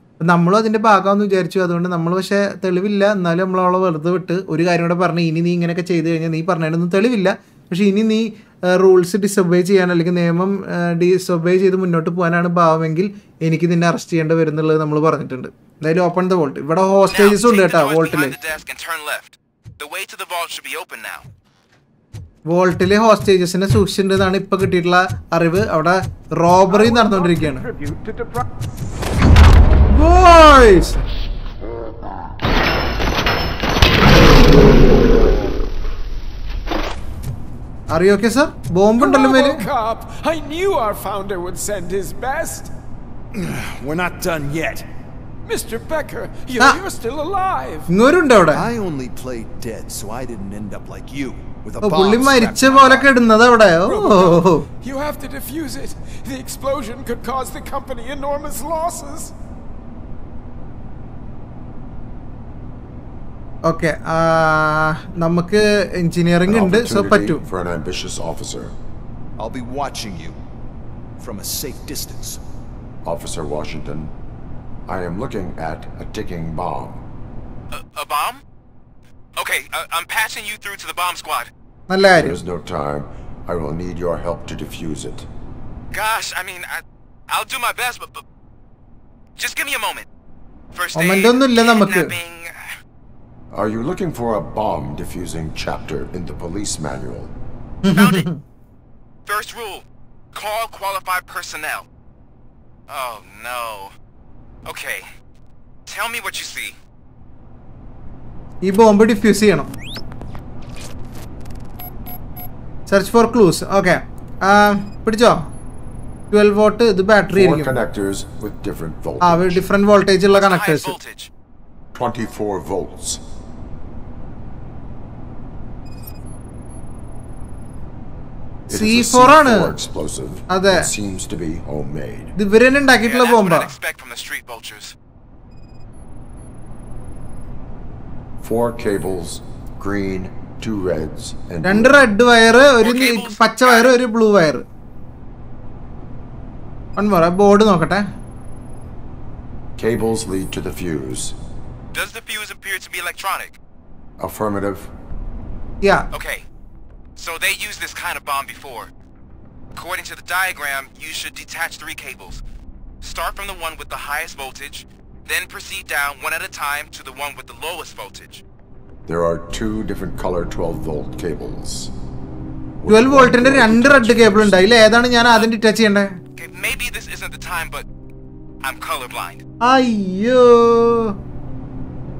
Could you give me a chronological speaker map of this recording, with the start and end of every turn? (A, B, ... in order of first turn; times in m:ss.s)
0:00.2-0:18.4 A
0:17.1-0:21.3 B
0:22.5-0:27.6 A
0:26.7-0:28.4 C
0:29.9-0:31.0 A
0:37.9-0:39.6 A
0:39.0-0:42.7 C
0:43.3-0:44.9 D
0:45.4-0:47.9 C
0:47.9-0:48.7 A
0:48.5-0:53.1 D
0:51.8-0:54.6 A
0:53.9-0:59.3 C
1:03.7-1:07.4 A
1:06.4-1:08.7 E
1:09.4-1:10.4 D
1:11.2-1:12.4 D
1:13.0-1:14.1 E
1:14.8-1:17.0 E
1:17.7-1:18.4 B
1:19.4-1:21.5 B
1:21.9-1:22.4 A
1:22.1-1:25.3 E
1:25.9-1:28.2 B
1:29.4-1:30.1 B
1:30.7-1:32.7 B
1:31.0-1:32.1 A
1:33.5-1:37.3 E
1:37.8-1:38.4 A
1:37.9-1:38.3 B
1:39.2-1:41.9 B
1:42.9-1:43.9 B
1:44.6-1:45.1 B
1:45.8-1:46.8 B
1:48.6-1:49.7 A
1:52.9-1:55.5 A
1:56.3-1:57.7 A
1:57.3-1:59.6 E
1:59.2-2:01.0 A
2:00.3-2:01.3 B
2:01.9-2:03.2 E
2:08.7-2:12.3 E
2:08.7-2:09.7 A
2:10.5-2:10.9 A
2:12.4-2:13.7 A
2:13.0-2:14.9 B
2:18.4-2:22.0 E
2:21.6-2:24.6 A
2:22.8-2:24.0 B
2:27.0-2:28.0 A
2:29.8-2:31.4 E
2:31.9-2:33.6 B
2:34.2-2:34.9 E
2:36.1-2:36.4 B
2:37.2-2:38.9 B
2:39.7-2:42.4 B
2:43.0-2:48.4 B
2:49.0-2:51.9 E
2:52.8-2:54.7 E
2:52.9-2:56.1 A
2:56.4-2:57.8 B
2:58.6-2:59.4 B
2:59.6-3:01.1 A